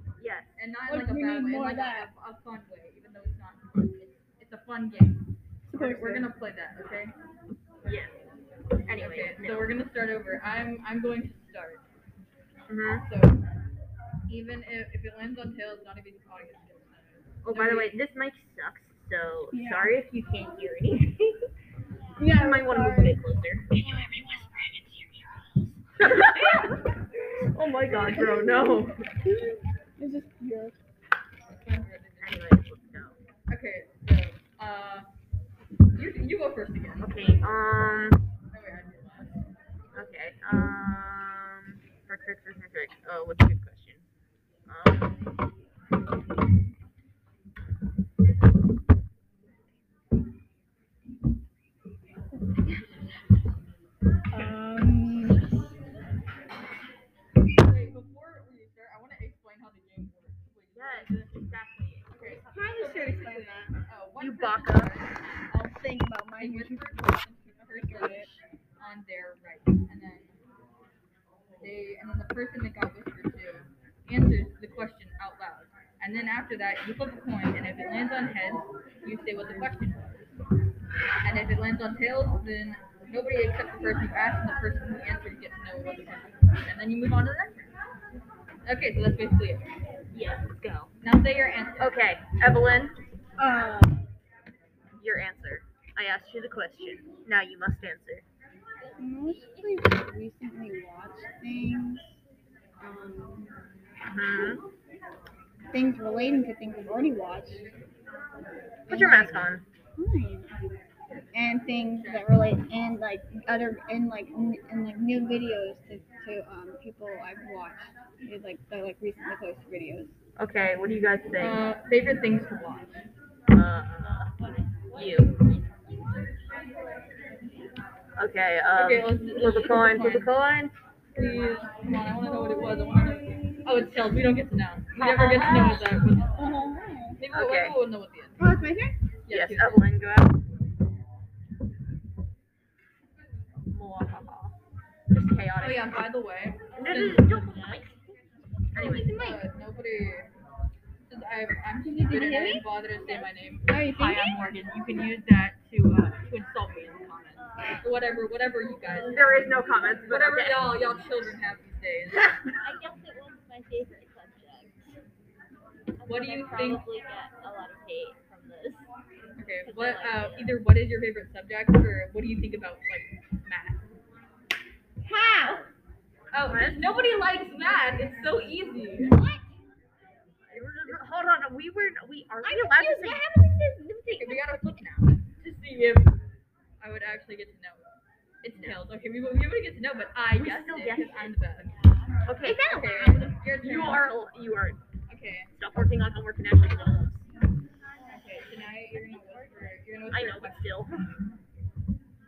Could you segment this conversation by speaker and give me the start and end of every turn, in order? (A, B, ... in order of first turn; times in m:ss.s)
0:00.2-0:00.6 A
0:00.6-0:05.2 B
0:00.9-0:02.1 C
0:05.7-0:06.3 C
0:05.7-0:07.1 B
0:07.8-0:08.1 A
0:08.9-0:09.8 A
0:08.9-0:11.8 B
0:12.7-0:13.0 A
0:13.0-0:13.4 B
0:14.3-0:17.9 B
0:17.4-0:21.4 A
0:19.5-0:20.0 C
0:22.0-0:22.3 D
0:22.2-0:23.2 C
0:22.2-0:25.4 A
0:23.8-0:24.5 C
0:26.0-0:26.8 A
0:27.5-0:29.0 A
0:27.9-0:29.3 C
0:30.0-0:30.8 C
0:31.5-0:32.6 B
0:32.2-0:33.2 A
0:33.5-0:35.1 B
0:35.9-0:37.1 B
0:37.0-0:38.2 A
0:38.5-0:39.4 B
0:39.9-0:44.0 A
0:44.7-0:45.2 A
0:52.5-0:52.8 C
0:54.3-0:55.4 C
0:57.6-1:01.3 B
1:00.7-1:03.1 A
1:02.1-1:10.4 B
1:02.4-1:03.7 C
1:04.2-1:05.0 A
1:05.6-1:07.0 C
1:07.6-1:08.3 C
1:11.6-1:20.3 B
1:21.2-1:27.6 B
1:28.6-1:29.6 B
1:30.1-1:30.9 A
1:31.0-1:32.0 B
1:31.8-1:33.0 A
1:33.4-1:34.0 C
1:35.0-1:38.2 A
1:38.8-1:39.8 D
1:39.0-1:42.1 C
1:42.8-1:43.5 C
1:44.0-1:44.6 A
1:45.7-1:47.6 C
1:48.9-1:50.5 C
1:48.9-1:49.6 A
1:51.3-2:00.1 C
1:51.9-1:52.3 B
2:00.4-2:01.6 A
2:01.4-2:03.0 B
2:03.5-2:04.3 A
2:04.0-2:07.0 D
2:04.9-2:05.3 A
2:08.2-2:10.7 A
2:08.7-2:10.3 B
2:11.1-2:16.4 B
2:15.0-2:15.9 A
2:15.2-2:16.2 D
2:16.3-2:17.2 C
2:17.2-2:18.4 B
2:17.3-2:17.8 A
2:18.4-2:18.9 C
2:19.3-2:19.8 B
2:19.3-2:20.3 A
2:23.7-2:24.5 A
2:25.1-2:26.0 A
2:25.6-2:27.6 B
2:26.7-2:28.0 D
2:26.7-2:27.9 A
2:28.7-2:29.1 A
2:28.8-2:29.5 C
2:28.8-2:30.3 B
2:31.1-2:39.5 B
2:31.8-2:32.6 C
2:32.9-2:33.4 D
2:33.7-2:34.4 C
2:37.4-2:40.4 D
2:39.1-2:40.9 A
2:40.1-2:42.4 B
2:42.6-2:44.9 D
2:46.0-2:48.8 D
2:46.0-2:46.8 B
2:49.4-2:53.8 B
2:49.6-2:50.6 D
2:55.0-2:55.7 C
2:56.3-2:59.1 B
2:56.5-2:57.0 A
2:59.0-2:59.5 C
3:00.5-3:03.2 A
3:02.4-3:04.7 C
3:04.1-3:06.1 B
3:06.8-3:07.9 B
3:08.4-3:11.7 B
3:08.6-3:08.8 A
3:10.3-3:11.3 A
3:11.5-3:12.2 D
3:12.2-3:12.7 A
3:12.4-3:13.4 C
3:12.6-3:14.1 B
3:13.6-3:14.8 A
3:15.1-3:15.5 B
3:15.5-3:17.2 A
3:18.0-3:20.2 D
3:18.1-3:20.7 B
3:20.1-3:20.9 A